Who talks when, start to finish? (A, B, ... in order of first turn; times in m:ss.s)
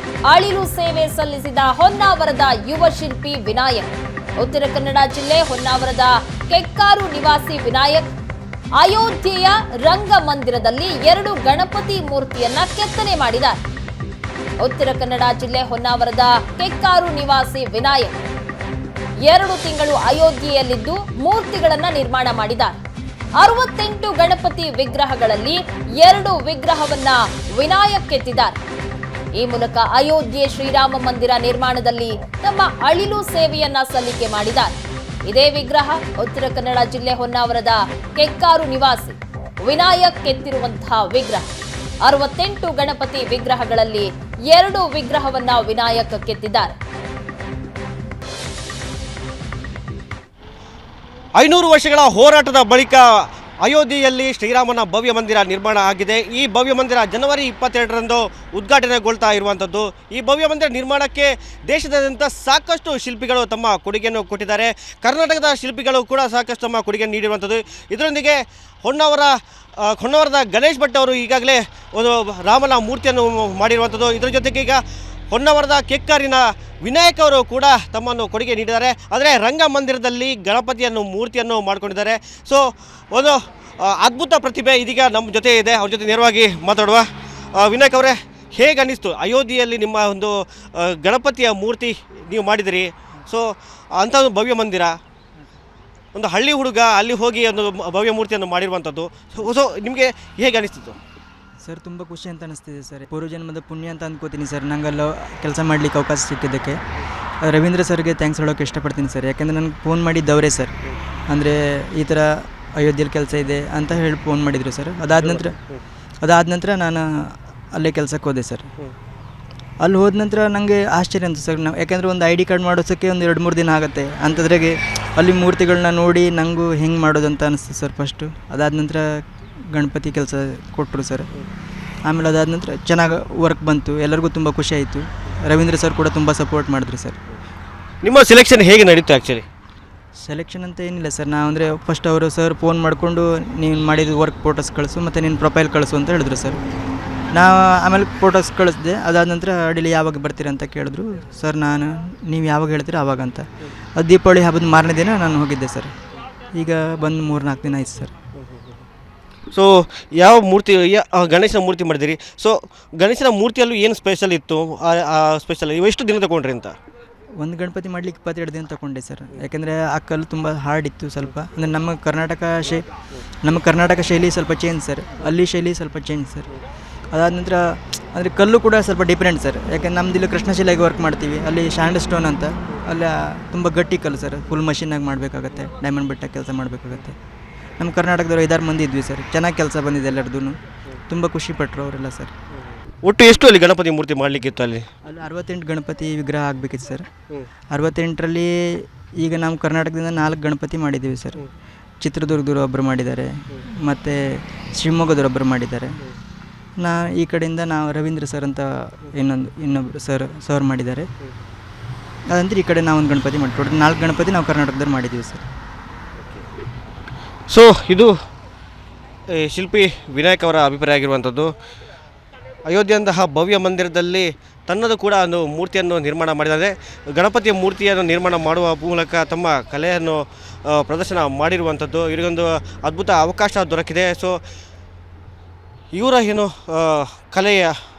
0:00.3-0:08.1 A
0:08.8-0:13.6 A
0:14.6-0:18.2 A
0:19.2-0:22.8 A
0:23.4-0:28.6 A
0:29.4-0:41.5 A
0:42.0-0:46.7 A
0:51.4-1:34.9 B
1:36.1-1:41.0 B
1:41.6-1:46.8 C
1:47.4-1:50.7 C
1:51.3-1:55.6 C
1:55.2-1:55.8 B
1:56.2-1:58.7 C
1:59.8-2:09.1 C
2:09.7-2:11.3 C
2:12.1-2:17.2 C
2:18.0-2:19.5 B
2:20.2-2:26.6 C
2:27.3-2:33.4 C
2:34.0-2:35.9 C
2:36.5-2:38.1 C
2:39.5-2:46.8 B
2:47.4-2:52.9 C
2:53.4-2:56.5 C
2:57.1-3:07.2 C
3:07.8-3:10.6 C
3:11.1-3:12.3 C
3:13.0-3:14.9 B
3:15.1-3:17.1 C
3:17.7-3:21.4 C
3:22.0-3:26.0 C
3:26.8-3:31.1 C
3:32.3-3:35.5 C
3:37.5-3:38.1 B
3:39.3-3:41.5 B
3:42.7-3:54.4 B
3:55.9-3:57.7 B